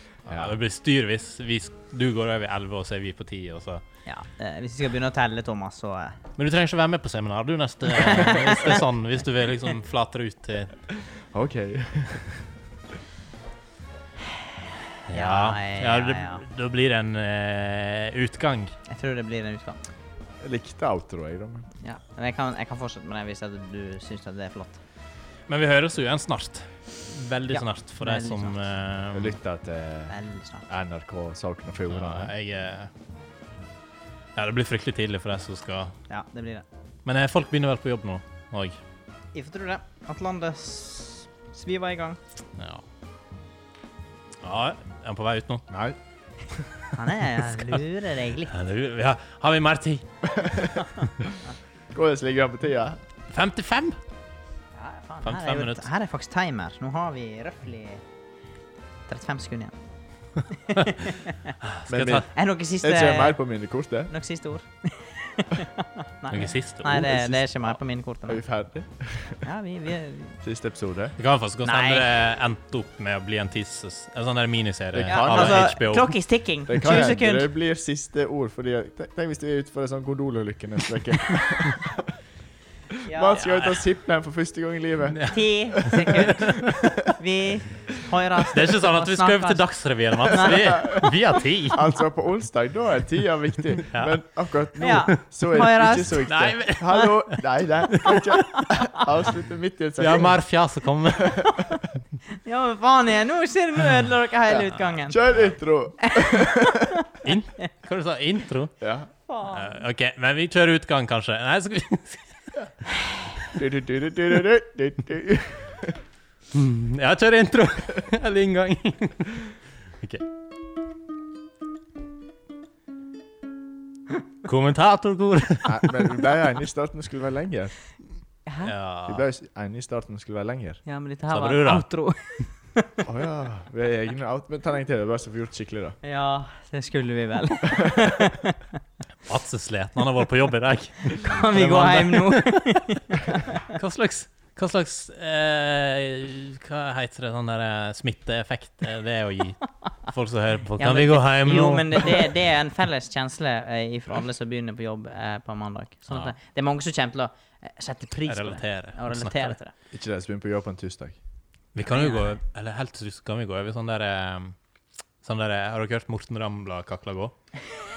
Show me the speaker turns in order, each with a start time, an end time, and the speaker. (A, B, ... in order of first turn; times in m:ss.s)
0:00.2-0:03.8 A
0:00.3-0:00.6 B
0:04.0-0:06.2 C
0:06.4-0:10.7 A
0:07.9-0:08.8 C
0:11.1-0:12.4 B
0:15.0-0:18.7 A
0:15.1-0:16.4 C
0:18.9-0:19.8 C
0:20.4-0:21.7 B
0:21.8-0:24.8 C
0:25.5-0:29.4 A
0:27.5-0:28.6 C
0:29.1-0:32.3 B
0:30.1-0:30.6 C
0:31.9-0:32.9 A
0:34.3-0:35.9 A
0:36.1-0:36.6 C
0:37.0-0:38.8 A
0:39.3-0:42.2 C
0:42.6-0:42.8 A
0:44.4-0:45.6 A
0:45.7-0:46.0 B
0:46.9-0:48.5 C
0:47.2-0:47.8 A
0:48.5-0:50.0 A
0:50.3-0:50.8 B
0:51.9-0:53.0 B
0:53.3-0:54.0 A
0:54.7-0:58.0 C
0:55.2-0:55.9 A
0:59.1-0:59.8 C
1:00.5-1:01.5 C
1:01.6-1:02.3 A
1:01.9-1:02.3 B
1:02.3-1:03.4 C
1:02.8-1:04.1 B
1:04.1-1:08.4 C
1:06.3-1:07.2 A
1:06.9-1:07.4 B
1:08.3-1:09.4 B
1:09.4-1:10.4 C
1:10.4-1:11.2 B
1:11.2-1:16.2 A
1:11.6-1:12.0 C
1:14.9-1:15.7 B
1:15.0-1:17.5 C
1:16.7-1:22.1 B
1:16.8-1:17.0 A
1:23.0-1:23.4 C
1:23.0-1:26.4 B
1:23.4-1:23.8 A
1:25.1-1:27.0 A
1:25.3-1:29.6 C
1:28.5-1:31.9 A
1:30.2-1:31.0 C
1:30.5-1:31.1 B
1:31.7-1:40.4 B
1:34.8-1:36.3 C
1:36.2-1:38.4 A
1:38.4-1:39.0 C
1:40.0-1:41.6 A
1:41.4-1:41.8 C
1:42.4-1:45.2 C
1:45.0-1:46.9 B
1:46.0-1:47.1 C
1:47.2-1:48.8 A
1:48.8-1:49.1 B
1:49.3-1:49.8 C
1:49.5-1:52.7 A
1:53.5-1:56.0 B
1:56.5-2:00.2 A
2:04.4-2:06.2 A
2:05.6-2:07.7 B
2:08.4-2:08.7 C
2:08.6-2:09.2 A
2:09.0-2:10.8 B
2:10.8-2:13.0 C
2:11.3-2:11.9 A
2:13.0-2:16.0 B
2:16.0-2:18.7 C
2:17.8-2:18.1 B
2:19.2-2:23.0 A
2:21.0-2:23.6 C
2:23.6-2:32.3 A
2:30.8-2:39.7 C
2:36.1-2:36.3 A
2:38.2-2:39.5 A
2:39.9-2:41.2 B
2:41.7-2:44.5 A
2:41.9-2:42.4 C
2:45.2-2:47.3 A